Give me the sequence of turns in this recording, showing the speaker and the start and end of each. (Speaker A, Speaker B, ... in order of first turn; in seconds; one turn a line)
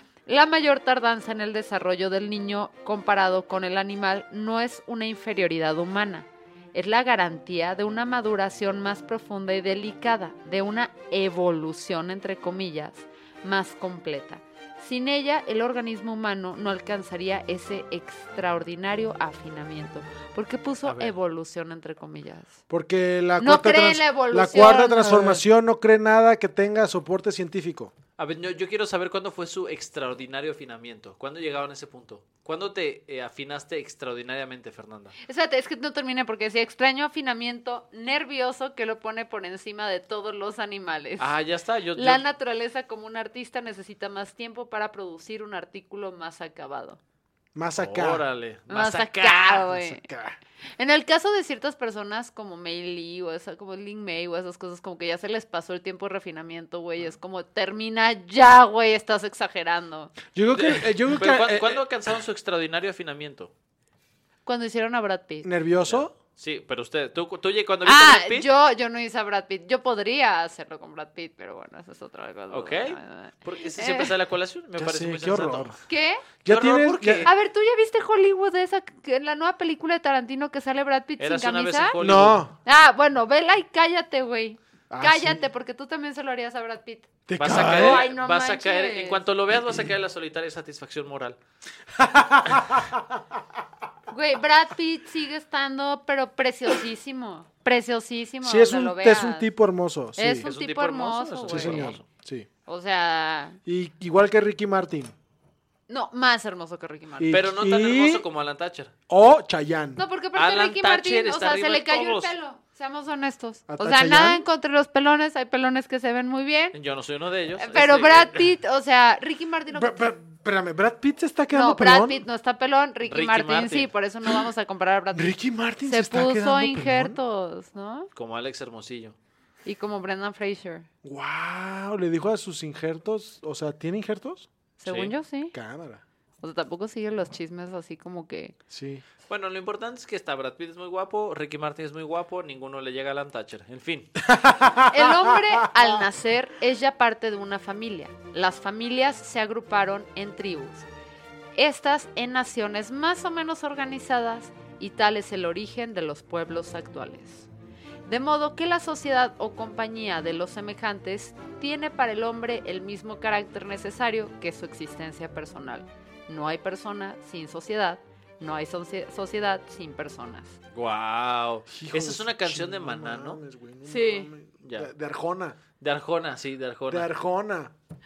Speaker A: 0.2-22.5
Speaker B: 20.8-21.1
Speaker C: 22.7-27.9
Speaker A: 23.4-25.4
Speaker B: 28.2-35.1
Speaker A: 35.2-41.3
Speaker B: 41.2-42.2
Speaker A: 41.9-47.0
Speaker C: 47.5-48.2
Speaker B: 47.8-49.9
Speaker A: 48.7-50.0
Speaker C: 49.9-50.4
Speaker A: 50.8-60.1
Speaker C: 60.3-61.8
Speaker B: 60.5-63.5
Speaker A: 64.4-65.5
Speaker C: 65.4-66.1
Speaker B: 65.8-68.5
Speaker A: 67.8-74.1
Speaker B: 72.5-75.8
Speaker C: 74.8-75.8
Speaker A: 75.9-76.3
Speaker C: 76.4-77.3
Speaker B: 76.4-77.3
Speaker A: 77.2-82.0
Speaker B: 81.2-82.4
Speaker C: 82.0-82.5
Speaker A: 82.6-87.1
Speaker C: 84.9-85.4
Speaker C: 87.3-88.1
Speaker B: 87.4-91.4
Speaker A: 87.7-89.2
Speaker C: 92.0-93.0
Speaker A: 94.1-99.5
Speaker C: 98.4-100.5
Speaker A: 100.2-102.0
Speaker B: 100.4-102.0
Speaker C: 101.5-102.5
Speaker A: 102.7-103.6
Speaker C: 103.7-105.1
Speaker A: 105.9-107.4
Speaker C: 107.2-108.2
Speaker B: 107.3-108.9
Speaker C: 109.1-110.0
Speaker A: 110.0-116.8
Speaker B: 110.3-112.3
Speaker C: 113.7-114.4
Speaker B: 116.7-118.5
Speaker A: 117.5-120.1
Speaker C: 119.7-122.2
Speaker A: 121.5-128.1
Speaker B: 123.0-123.9
Speaker C: 125.1-127.2
Speaker B: 128.1-129.2
Speaker A: 129.6-130.9
Speaker C: 131.0-134.5
Speaker A: 134.8-135.5
Speaker B: 134.8-135.1
Speaker C: 135.5-136.0
Speaker A: 136.4-138.5
Speaker C: 138.7-139.0
Speaker B: 139.3-144.2
Speaker C: 144.2-146.0
Speaker A: 144.9-150.9
Speaker A: 151.5-157.5
Speaker A: 158.0-170.6
Speaker B: 170.7-173.4
Speaker C: 171.7-175.6
Speaker A: 173.8-174.3
Speaker B: 174.6-174.9
Speaker B: 175.8-177.1
Speaker C: 176.9-177.7